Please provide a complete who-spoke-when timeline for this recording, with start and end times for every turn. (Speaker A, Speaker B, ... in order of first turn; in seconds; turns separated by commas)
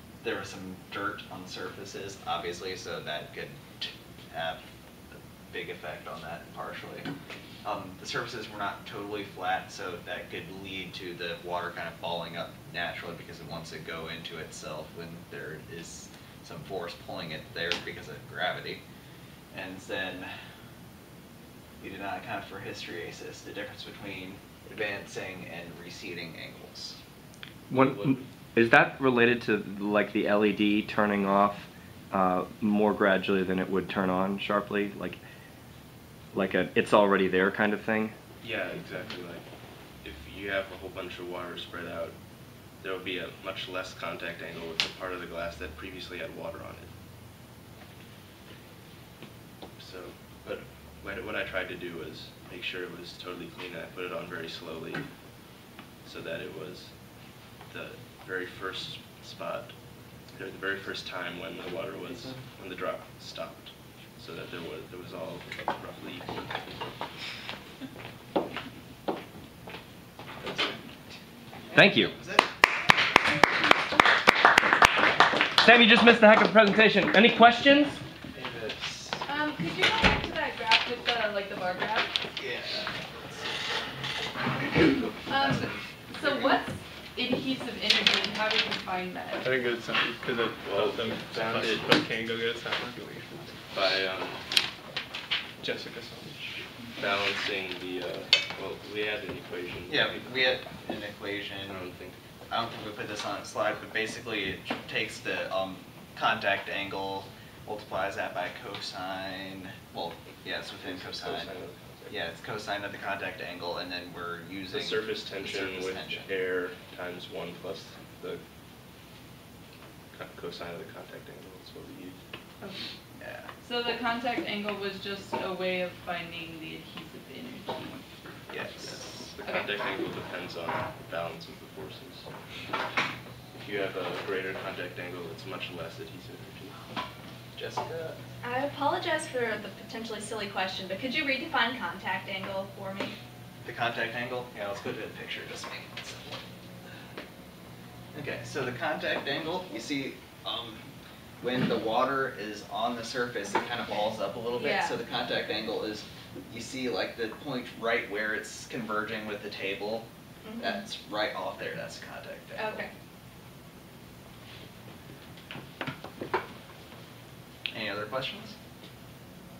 Speaker A: 0.2-4.6, Speaker A: 5.1-7.1, Speaker A: 7.6-18.8, Speaker A: 19.5-20.3, Speaker A: 21.8-27.0, Speaker B: 27.7-35.2, Speaker A: 27.7-28.2, Speaker B: 36.3-38.1, Speaker C: 38.4-39.5, Speaker C: 40.0-42.1, Speaker C: 42.8-46.9, Speaker C: 49.8-55.1, Speaker C: 56.0-57.0, Speaker C: 57.6-59.8, Speaker C: 60.3-66.5, Speaker A: 71.7-72.5, Speaker B: 71.7-72.1, Speaker B: 75.6-78.0, Speaker A: 78.3-79.2, Speaker D: 79.3-82.2, Speaker A: 82.4-83.9, Speaker A: 84.6-86.6, Speaker D: 85.3-89.5, Speaker E: 89.4-93.6, Speaker C: 90.6-92.1, Speaker C: 93.7-94.4, Speaker E: 95.6-96.6, Speaker C: 97.0-100.5, Speaker A: 99.9-101.8, Speaker C: 101.6-102.2, Speaker A: 102.5-111.6, Speaker C: 110.8-112.2, Speaker A: 112.1-116.3, Speaker C: 114.7-118.4, Speaker C: 120.1-122.2, Speaker D: 122.6-122.9, Speaker A: 123.2-123.5, Speaker D: 123.6-128.1, Speaker A: 128.5-129.4, Speaker C: 128.6-132.3, Speaker D: 129.4-129.7, Speaker C: 133.6-136.8, Speaker A: 137.6-138.2, Speaker F: 138.4-143.2, Speaker A: 143.6-146.4, Speaker A: 148.1-150.9, Speaker A: 151.4-162.9, Speaker F: 154.6-154.9, Speaker F: 160.4-160.8, Speaker F: 162.6-162.9, Speaker A: 167.7-168.6